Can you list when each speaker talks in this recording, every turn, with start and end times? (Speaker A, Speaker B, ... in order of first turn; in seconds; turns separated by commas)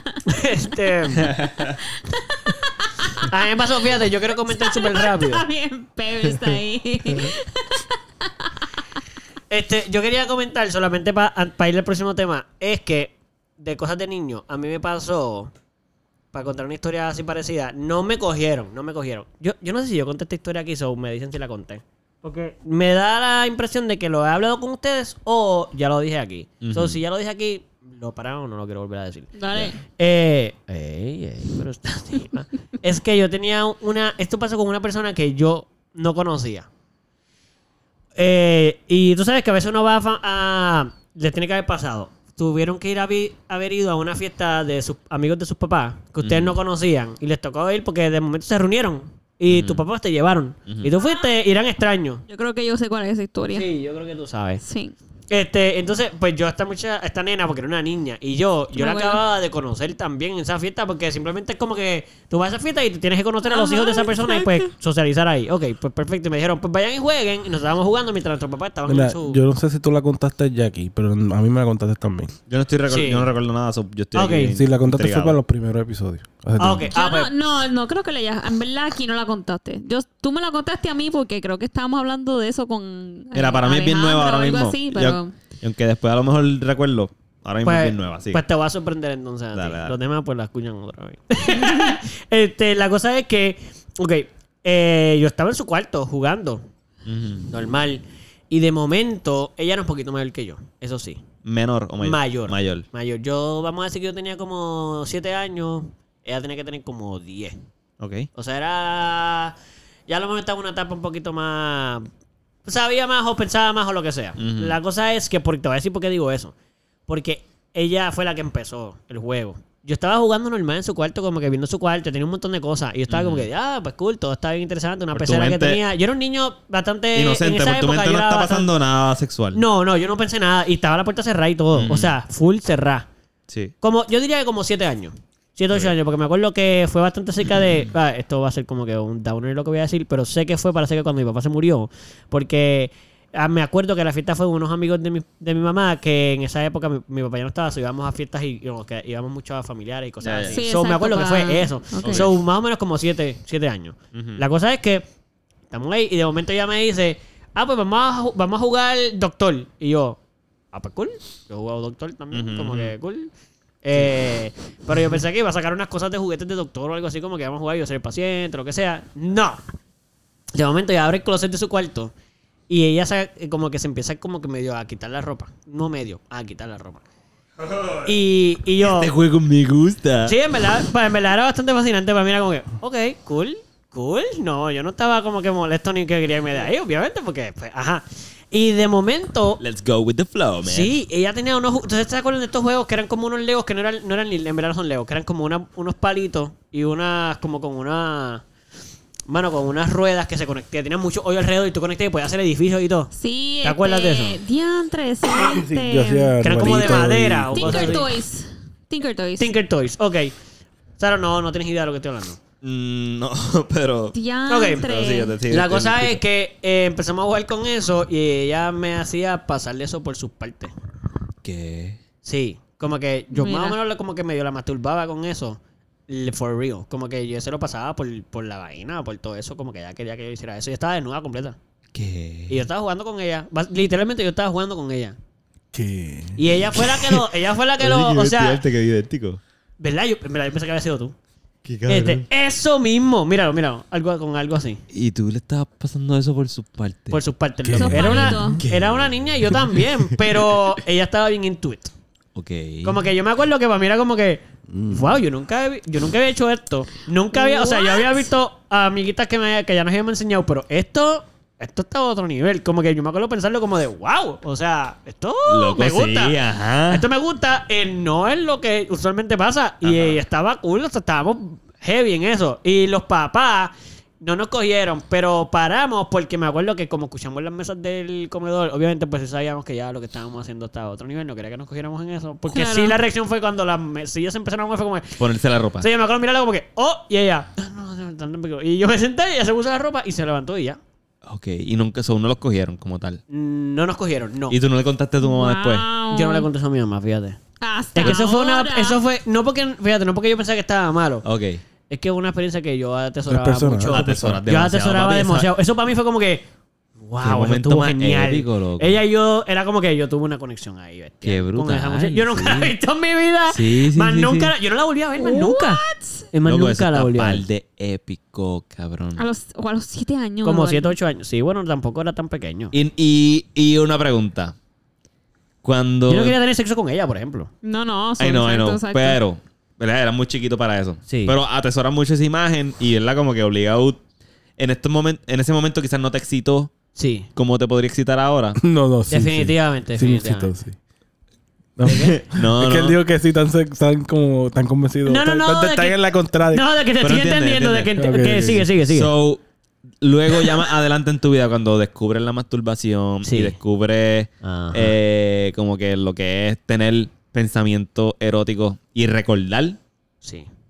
Speaker A: 0.3-1.4, Speaker B: 1.2-1.8, Speaker C: 1.9-3.3, Speaker A: 3.2-5.4, Speaker C: 4.5-8.5, Speaker A: 9.5-15.5, Speaker A: 16.3-36.7, Speaker B: 26.6-27.0, Speaker C: 29.4-29.8, Speaker A: 38.1-52.2, Speaker B: 46.2-46.5, Speaker B: 49.5-49.8, Speaker B: 50.6-50.9, Speaker C: 51.0-51.2, Speaker C: 52.3-53.7, Speaker A: 53.5-54.6, Speaker C: 54.6-54.9, Speaker A: 55.3-69.4, Speaker C: 58.7-59.2, Speaker C: 63.4-64.6, Speaker D: 68.9-72.3, Speaker B: 72.5-75.4, Speaker A: 72.9-73.3, Speaker A: 74.1-74.5, Speaker D: 74.5-76.9, Speaker A: 76.6-77.3, Speaker C: 76.9-85.3, Speaker B: 83.3-88.4, Speaker A: 87.6-96.6, Speaker B: 89.5-90.0, Speaker C: 91.5-92.0, Speaker B: 97.0-97.5, Speaker A: 97.5-101.2, Speaker B: 101.4-102.8, Speaker A: 102.0-107.6, Speaker B: 108.0-108.3, Speaker A: 108.3-109.5, Speaker A: 110.1-112.1, Speaker A: 112.7-116.5, Speaker B: 114.4-114.8, Speaker A: 117.1-128.7, Speaker B: 123.1-123.5, Speaker B: 125.1-125.8, Speaker B: 127.1-129.6, Speaker A: 129.5-133.1, Speaker B: 131.7-132.1, Speaker B: 133.5-133.7, Speaker A: 133.8-155.0, Speaker B: 150.2-150.6, Speaker C: 150.5-152.3, Speaker B: 152.0-152.3, Speaker B: 154.1-154.4, Speaker A: 155.7-160.2, Speaker A: 160.7-163.3, Speaker B: 162.3-162.9, Speaker A: 163.8-169.6, Speaker A: 170.5-172.1, Speaker A: 172.7-177.0, Speaker B: 177.6-178.1, Speaker A: 178.0-179.1, Speaker B: 178.8-180.4, Speaker A: 180.2-189.6, Speaker B: 189.6-190.9, Speaker A: 190.6-198.4, Speaker A: 199.3-204.4, Speaker C: 203.1-209.5, Speaker D: 205.3-208.0, Speaker A: 206.4-208.1, Speaker A: 209.4-210.3, Speaker A: 211.0-212.4, Speaker B: 212.6-214.2, Speaker C: 214.1-215.3, Speaker A: 214.5-214.9, Speaker B: 214.8-216.2, Speaker A: 215.5-220.7, Speaker B: 221.4-222.0, Speaker A: 222.2-231.6, Speaker C: 223.3-223.8, Speaker B: 231.9-232.6, Speaker A: 232.5-235.2, Speaker D: 235.7-236.5, Speaker A: 236.3-238.6, Speaker B: 237.8-239.4, Speaker A: 239.8-241.1, Speaker B: 241.6-242.2, Speaker A: 241.9-244.8, Speaker B: 244.9-247.2, Speaker A: 247.1-251.9, Speaker D: 247.6-248.4, Speaker C: 247.7-248.6, Speaker B: 248.0-250.2, Speaker B: 252.3-253.0, Speaker A: 252.8-266.4, Speaker D: 254.7-255.2, Speaker C: 257.3-258.3, Speaker B: 265.4-267.0, Speaker A: 266.9-285.2, Speaker B: 269.8-270.2, Speaker C: 282.5-283.0, Speaker B: 285.2-285.9, Speaker A: 285.8-290.8, Speaker B: 291.2-293.2, Speaker A: 293.3-294.6, Speaker B: 294.5-295.9, Speaker C: 295.2-296.5, Speaker A: 296.1-297.4, Speaker C: 297.6-299.0, Speaker A: 297.9-301.2, Speaker B: 301.2-301.6, Speaker A: 301.9-306.4, Speaker D: 303.3-304.4, Speaker B: 303.9-305.5, Speaker A: 307.0-317.4, Speaker B: 307.2-309.0, Speaker B: 311.2-312.7, Speaker B: 313.5-314.5, Speaker C: 315.2-316.3, Speaker B: 316.4-319.2, Speaker C: 319.2-320.9, Speaker A: 320.4-322.7, Speaker B: 322.7-324.5, Speaker B: 325.6-326.4, Speaker A: 326.1-327.5, Speaker C: 327.6-329.2, Speaker B: 328.2-334.0, Speaker A: 331.1-331.3, Speaker B: 334.6-336.7, Speaker A: 336.9-337.3, Speaker B: 337.3-338.6, Speaker D: 338.6-340.8, Speaker A: 339.1-340.5, Speaker D: 341.8-346.6, Speaker B: 341.9-343.0, Speaker A: 341.9-342.1, Speaker A: 345.1-349.1, Speaker B: 347.0-347.9, Speaker D: 347.9-348.7, Speaker B: 348.9-349.4, Speaker B: 350.0-359.8, Speaker A: 353.2-353.6, Speaker A: 354.4-354.9, Speaker A: 360.2-360.5